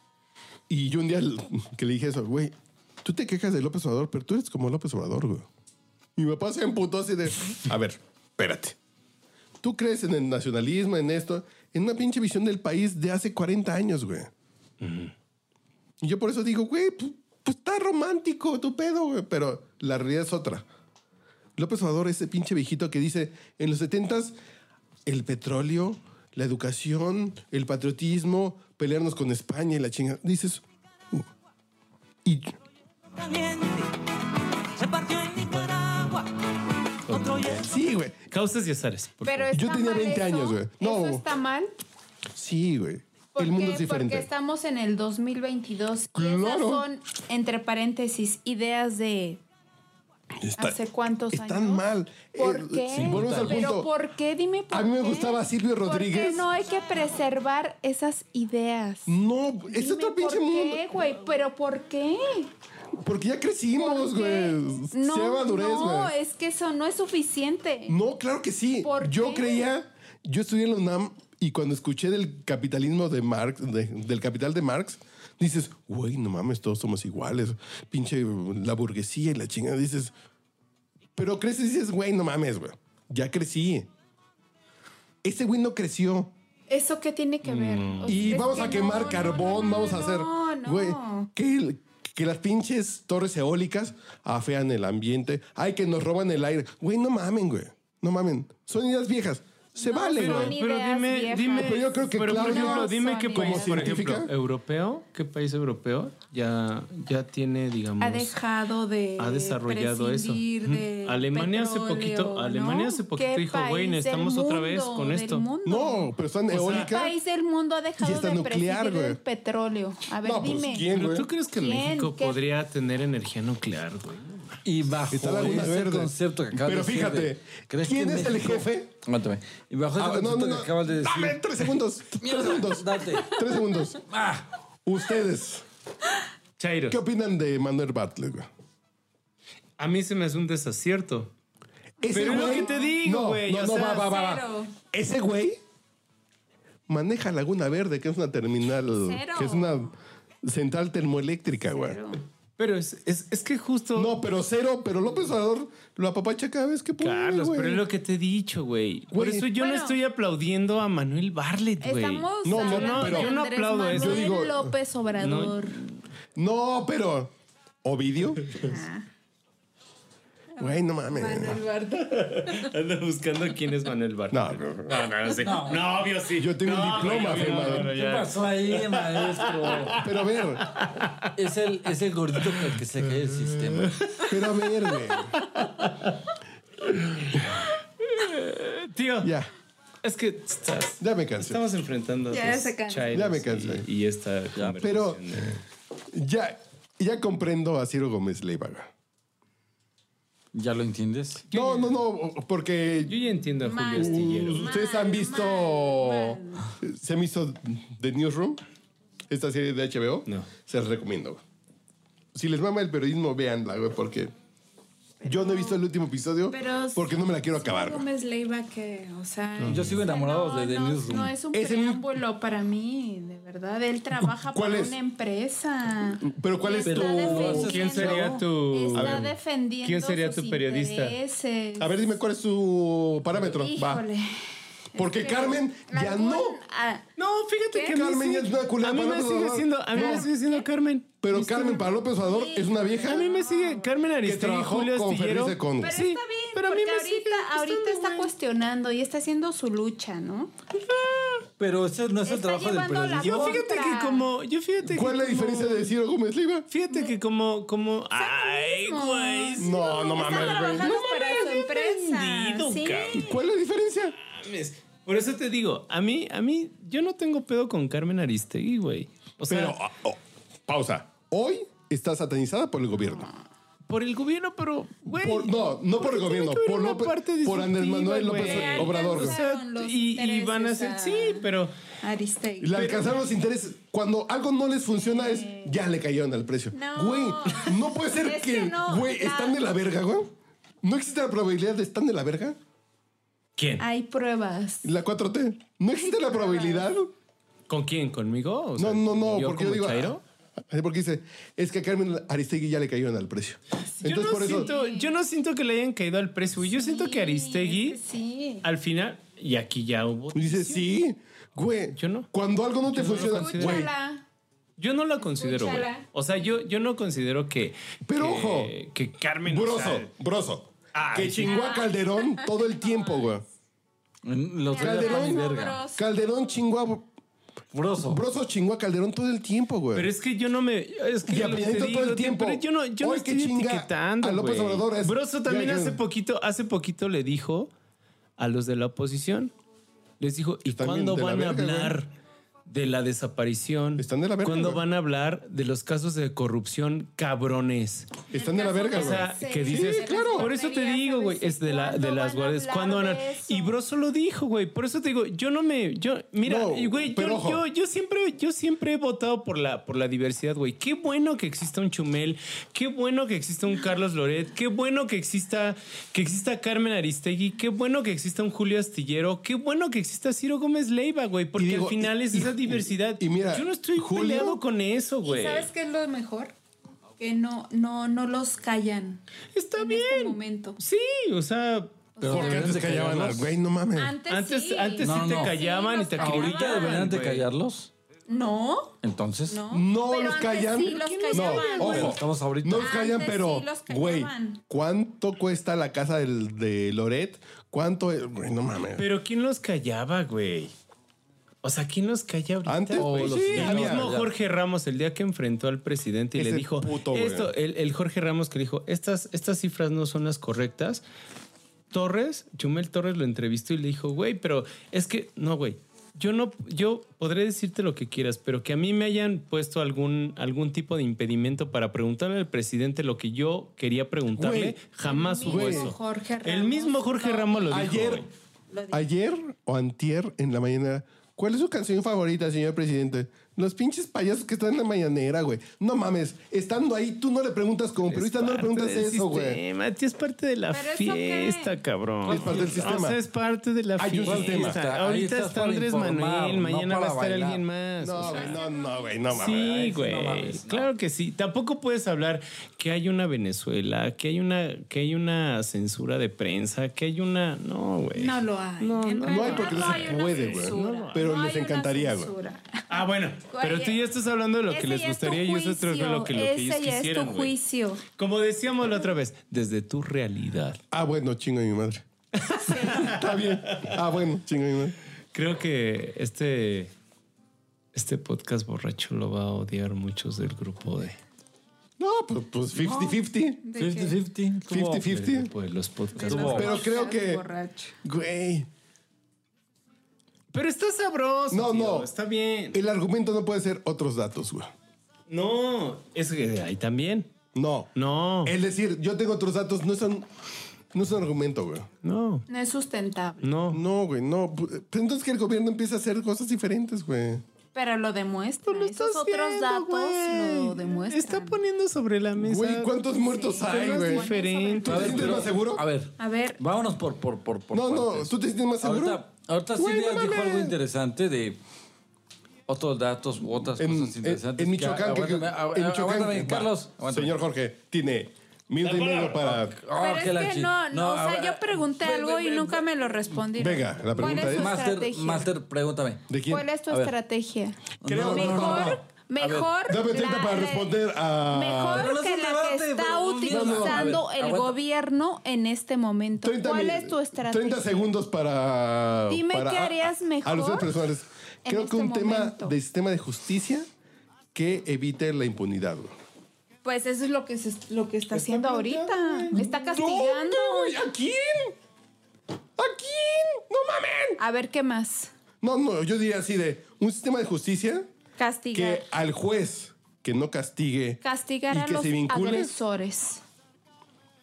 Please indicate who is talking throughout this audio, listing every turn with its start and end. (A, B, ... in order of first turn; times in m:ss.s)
0:00.7-0:05.5 A
0:06.2-0:08.8 A
0:09.6-0:14.3 A
0:14.8-0:15.1 B
0:16.0-0:20.6 A
0:21.6-0:24.4 A
0:25.0-0:31.2 A
0:32.2-0:32.5 A
0:33.2-0:34.0 C
0:34.7-0:36.5 C
0:37.1-0:37.7 C
0:37.1-0:37.7 B
0:37.6-0:38.2 A
0:38.3-0:39.5 B
0:39.2-0:41.7 D
0:39.5-0:41.2 A
0:42.3-0:44.3 A
0:43.4-0:49.4 D
0:46.1-0:46.8 A
0:50.4-0:50.8 A
0:50.6-0:51.8 D
0:51.3-0:53.9 A
0:52.3-0:59.2 D
0:52.9-0:53.7 E
0:54.7-0:56.5 A
0:59.1-1:00.8 A
0:59.7-1:02.5 D
1:03.0-1:06.1 A
1:03.8-1:08.0 D
1:07.9-1:20.1 A
1:08.8-1:09.6 D
1:21.2-1:23.9 A
1:25.2-1:26.3 A
1:26.7-1:31.3 D
1:27.4-1:28.4 B
1:28.0-1:40.5 A
1:39.8-1:44.0 D
1:40.1-1:48.3 B
1:41.5-1:44.3 A
1:48.0-2:00.9 D
1:49.2-1:55.5 B
1:55.6-1:57.1 A
1:56.5-1:56.9 B
1:58.0-1:59.2 A
2:00.2-2:01.3 A
2:00.9-2:04.6 B
2:01.5-2:02.4 D
2:04.6-2:11.4 E
2:05.1-2:08.9 A
2:10.0-2:14.0 A
2:12.2-2:13.3 E
2:14.1-2:14.4 E
2:14.8-2:15.6 A
2:16.6-2:17.0 B
2:16.9-2:18.5 A
2:19.8-2:21.3 B
2:22.0-2:22.9 D
2:22.0-2:25.6 A
2:22.1-2:24.1 B
2:23.9-2:24.7 D
2:26.9-2:32.0 A
2:28.9-2:29.9 D
2:31.7-2:32.2 D
2:32.6-2:34.2 B
2:33.9-2:37.8 A
2:37.0-2:44.4 B
2:39.1-2:39.5 A
2:39.5-2:40.0 D
2:41.8-2:45.8 D
2:42.4-2:43.3 A
2:43.9-2:44.7 A
2:45.2-2:45.8 B
2:46.4-2:47.3 A
2:47.8-2:48.4 A
2:48.6-2:49.1 D
2:50.6-2:52.7 D
2:50.6-2:51.6 A
2:52.0-3:01.3 B
2:54.3-2:55.0 A
2:55.4-2:55.9 E
2:56.3-2:57.9 A
2:57.3-3:00.0 E
3:00.0-3:00.6 A
3:01.3-3:03.9 E
3:04.3-3:05.4 A
3:05.4-3:06.1 B
3:06.8-3:09.3 B
3:09.2-3:09.5 A
3:10.0-3:15.6 B
3:11.0-3:11.6 A
3:12.3-3:13.1 D
3:13.1-3:13.8 A
3:14.5-3:14.8 E
3:14.8-3:15.2 A
3:16.1-3:18.9 A
3:20.5-3:21.4 E
3:21.5-3:22.0 B
3:21.5-3:23.2 A
3:23.0-3:24.8 B
3:23.6-3:26.7 D
3:23.9-3:28.6 A
3:29.3-3:31.4 A
3:32.3-3:34.3 A
3:35.2-3:35.8 D
3:35.2-3:38.0 A
3:36.5-3:51.9 D
3:39.6-3:40.0 B
3:39.6-3:41.3 E
3:41.5-3:42.0 A
3:44.2-3:45.0 A
3:46.2-3:47.8 A
3:46.8-3:48.4 E
3:47.4-3:51.2 B
3:48.9-3:49.3 A
3:51.8-3:54.0 A
3:53.5-3:54.4 D
3:54.9-3:57.0 D
3:55.0-3:56.6 A
3:57.2-4:01.9 B
3:57.7-3:58.0 D
3:57.9-4:00.3 A
3:59.9-4:00.6 D
4:01.2-4:03.2 A
4:02.2-4:03.9 D
4:03.1-4:08.3 B
4:04.2-4:06.0 A
4:05.8-4:10.5 D
4:10.9-4:11.4 B
4:11.6-4:13.6 E
4:12.2-4:14.2 D
4:13.2-4:15.9 B
4:14.8-4:16.7 A
4:16.7-4:23.3 B
4:18.1-4:23.3 D
4:19.6-4:21.7 A
4:23.1-4:24.1 A
4:24.3-4:29.8 B
4:29.5-4:33.3 A
4:33.9-4:41.7 B
4:35.1-4:39.4 A
4:38.4-4:41.4 D
4:42.0-4:43.0 D
4:42.6-4:52.6 A
4:42.7-4:43.1 B
4:44.9-4:45.7 D
4:46.7-4:49.6 D
4:53.6-4:53.8 B
4:53.8-4:54.9 D
4:54.8-4:57.1 A
4:56.0-4:56.9 D
4:57.7-5:00.2 B
4:58.8-5:00.2 A
5:00.7-5:04.7 A
5:04.0-5:05.1 D
5:04.0-5:08.0 B
5:06.7-5:08.6 D
5:08.6-5:10.9 B
5:10.3-5:13.9 A
5:12.0-5:12.3 B
5:12.9-5:13.9 B
5:13.1-5:14.2 D
5:14.8-5:20.1 B
5:15.2-5:16.0 D
5:18.0-5:18.7 A
5:19.4-5:23.4 A
5:20.9-5:21.6 B
5:21.4-5:23.3 D
5:24.2-5:25.8 E
5:24.7-5:26.1 D
5:24.8-5:27.0 A
5:27.7-5:28.2 E
5:28.0-5:30.1 A
5:29.9-5:37.7 B
5:31.2-5:36.0 A
5:38.4-5:39.5 B
5:40.2-5:42.1 B
5:40.7-5:41.9 A
5:42.7-5:48.1 B
5:44.0-5:44.8 A
5:48.3-5:50.5 A
5:48.3-5:53.8 D
5:48.9-6:15.7 B
5:56.4-5:57.6 A
6:11.6-6:14.6 A
6:15.2-6:16.5 D
6:17.2-6:19.2 D
6:19.5-6:21.9 B
6:19.8-6:20.8 D
6:22.2-6:22.7 D
6:22.2-6:23.5 E
6:22.2-6:24.1 A
6:24.0-6:27.1 D
6:24.3-6:27.4 B
6:25.0-6:25.6 E
6:26.2-6:27.9 E
6:28.3-6:28.9 D
6:29.0-6:29.6 E
6:29.5-6:32.2 D
6:29.7-6:39.0 A
6:30.8-6:32.1 B
6:31.8-6:32.9 E
6:32.7-6:34.6 D
6:39.0-6:40.7 B
6:41.6-6:51.0 B
6:42.6-6:44.1 A
6:43.0-6:44.3 E
6:46.4-6:47.5 A
6:51.9-7:08.3 B
7:04.3-7:04.8 A
7:05.0-7:08.0 D
7:05.4-7:05.9 A
7:07.7-7:08.2 A
7:08.7-7:09.0 D
7:08.9-7:19.6 A
7:18.0-7:28.6 B
7:20.7-7:21.7 D
7:22.2-7:23.2 A
7:22.3-7:22.9 E
7:24.0-7:24.8 A
7:24.2-7:27.6 E
7:28.0-7:29.7 A
7:28.2-7:29.2 D
7:29.3-7:30.9 E
7:29.3-7:41.2 B
7:38.1-7:44.0 D
7:39.2-7:42.3 A
7:42.9-7:47.5 B
7:44.7-7:48.0 D
7:48.2-7:50.8 B
7:50.9-7:52.0 A
7:52.4-7:54.0 B
7:52.5-7:53.1 D
7:52.8-7:55.0 A
7:55.3-7:56.9 B
7:57.9-8:01.2 B
8:02.0-8:03.6 A
8:02.8-8:03.2 E
8:03.6-8:04.2 D
8:03.7-8:05.0 E
8:04.7-8:05.5 A
8:05.0-8:06.7 B
8:06.1-8:07.9 D
8:06.2-8:06.8 E
8:06.5-8:07.4 A
8:08.0-8:08.7 A
8:10.5-8:12.8 B
8:11.5-8:12.1 A
8:12.7-8:14.7 A
8:15.3-8:17.3 B
8:17.5-8:17.9 A
8:17.9-8:18.5 B
8:18.4-8:20.3 A
8:20.9-8:21.9 A
8:22.0-8:22.4 B
8:22.5-8:23.5 D
8:23.4-8:23.8 B
8:23.7-8:27.4 A
8:27.7-8:31.6 D
8:28.7-8:33.0 B
8:32.4-8:34.3 A
8:33.1-8:35.4 D
8:33.6-8:35.5 B
8:34.8-8:35.8 A
8:34.8-8:41.6 E
8:36.2-8:36.6 D
8:37.7-8:39.2 A
8:39.8-8:40.8 A
8:42.7-8:47.4 E
8:43.8-8:49.8 A
8:48.8-8:49.6 B
8:49.6-8:52.8 E
8:49.9-8:55.5 D
8:53.6-8:54.8 A
8:54.1-8:56.3 E
8:56.3-8:56.6 A
8:56.5-9:08.1 D
8:56.9-8:57.1 E
8:58.0-8:59.7 E
8:58.0-8:59.0 A
8:59.8-9:02.1 A
9:01.9-9:04.7 E
9:03.5-9:04.2 A
9:06.4-9:13.9 A
9:09.3-9:10.9 D
9:11.6-9:12.7 D
9:14.5-9:16.1 A
9:16.8-9:21.0 D
9:18.3-9:21.7 A
9:22.8-9:24.4 A
9:24.4-9:25.3 D
9:25.6-9:28.1 A
9:28.4-9:29.0 D
9:28.7-9:32.7 A
9:31.2-9:33.4 D